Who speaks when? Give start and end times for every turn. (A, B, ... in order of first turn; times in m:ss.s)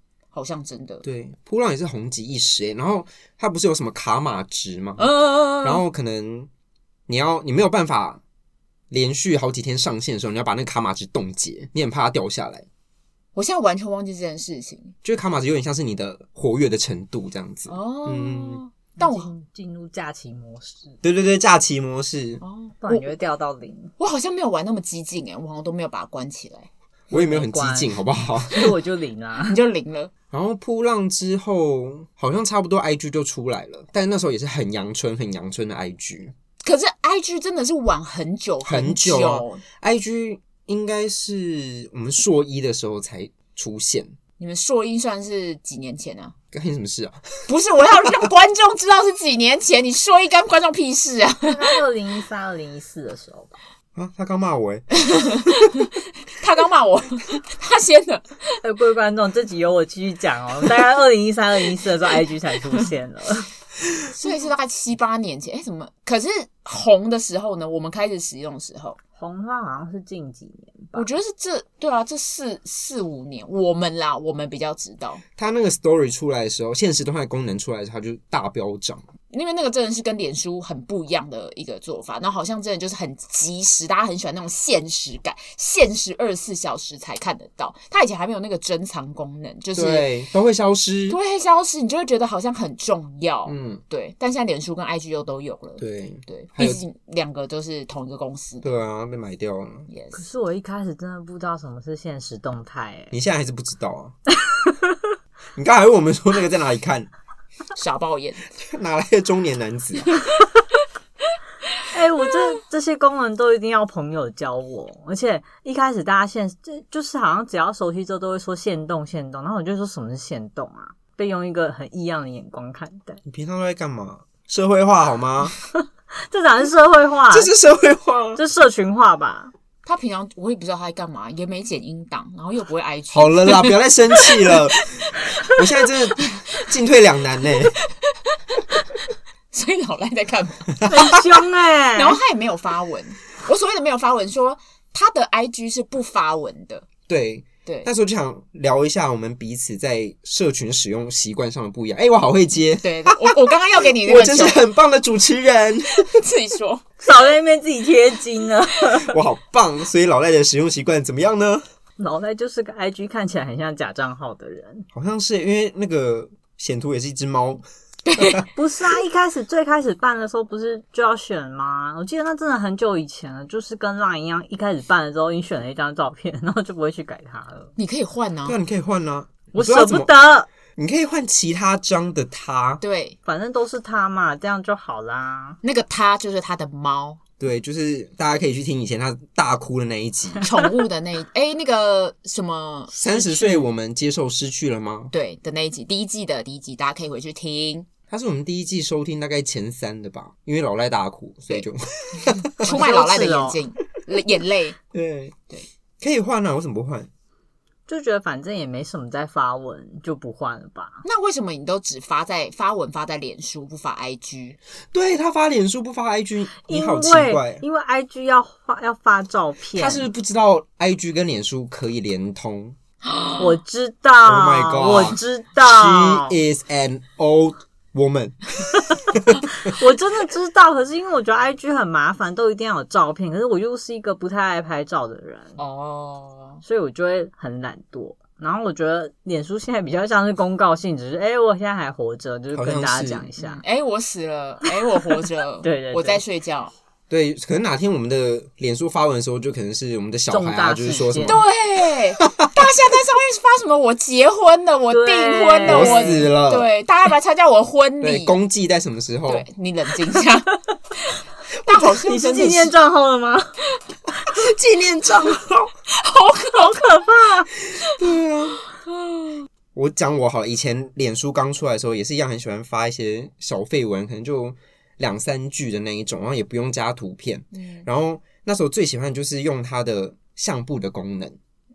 0:00.3-0:01.0 A
0:01.0-0:06.5 B
0:05.0-0:05.8 A
0:07.1-0:08.2 B
0:08.9-0:12.7 B
0:13.4-0:15.0 A
0:15.0-0:18.6 B
0:17.7-0:19.3 A
0:19.0-0:21.0 C
0:21.0-0:22.4 B
0:22.4-0:23.1 A
0:22.8-0:23.9 C
0:24.0-0:26.7 A
0:27.1-0:28.8 B
0:27.1-0:28.0 C
0:28.5-0:29.6 C
0:29.5-0:30.1 A
0:30.3-0:36.3 B
0:36.6-0:39.6 A
0:38.6-0:44.1 B
0:44.4-0:46.3 A
0:46.5-0:47.2 B
0:47.5-0:51.8 A
0:51.5-0:53.6 C
0:54.0-0:55.8 B
0:55.0-0:58.5 A
0:58.6-1:03.5 C
1:04.2-1:09.0 A
1:09.2-1:11.1 C
1:11.0-1:15.2 A
1:15.4-1:19.0 B
1:19.3-1:30.1 A
1:29.8-1:31.2 B
1:31.1-1:38.7 A
1:33.5-1:33.8 B
1:35.8-1:36.8 B
1:38.6-1:39.9 B
1:39.9-1:40.2 A
1:40.1-1:43.2 C
1:43.1-1:44.2 B
1:44.4-1:45.0 C
1:45.6-1:47.1 B
1:47.8-1:48.4 A
1:48.6-1:50.1 B
1:51.9-2:03.2 C
2:03.2-2:05.6 B
2:05.7-2:07.5 C
2:07.3-2:08.4 B
2:08.4-2:09.5 C
2:09.8-2:14.6 A
2:13.1-2:17.8 B
2:18.0-2:19.0 A
2:19.5-2:21.3 A
2:20.9-2:22.2 C
2:22.0-2:26.9 A
2:27.1-2:36.1 B
2:27.6-2:27.9 A
2:32.8-2:34.6 A
2:36.0-2:36.8 A
2:37.0-2:39.2 C
2:39.0-2:41.6 B
2:42.0-2:44.9 C
2:44.9-2:47.6 B
2:48.0-2:48.5 A
2:48.5-2:57.7 C
2:57.8-2:58.6 A
2:58.5-3:00.1 B
2:59.6-3:00.5 C
3:00.8-3:02.8 B
3:02.8-3:03.2 A
3:03.2-3:05.6 C
3:05.6-3:07.2 A
3:07.4-3:10.4 B
3:10.4-3:13.6 A
3:12.9-3:15.1 B
3:15.1-3:17.9 A
3:18.1-3:22.7 B
3:22.6-3:24.8 A
3:22.6-3:23.6 C
3:24.9-3:25.4 B
3:26.0-3:27.1 B
3:27.9-3:31.0 C
3:31.0-3:34.6 A
3:34.9-3:37.6 B
3:36.6-3:40.0 C
3:39.8-3:42.8 B
3:43.1-3:43.5 A
3:43.4-3:46.4 C
3:44.2-3:49.7 B
3:49.6-3:55.6 C
3:55.6-3:56.6 A
3:56.6-4:03.6 C
4:02.5-4:03.3 B
4:03.4-4:06.7 A
4:05.6-4:06.2 C
4:07.1-4:11.4 B
4:10.3-4:11.4 C
4:11.2-4:18.4 A
4:12.2-4:12.5 B
4:14.9-4:16.3 C
4:15.6-4:16.7 B
4:18.0-4:19.5 B
4:19.3-4:22.7 A
4:21.7-4:23.6 C
4:24.3-4:25.7 B
4:25.9-4:27.0 A
4:26.6-4:27.5 C
4:27.8-4:28.6 B
4:28.9-4:29.4 A
4:29.7-4:41.4 B
4:37.5-4:37.9 A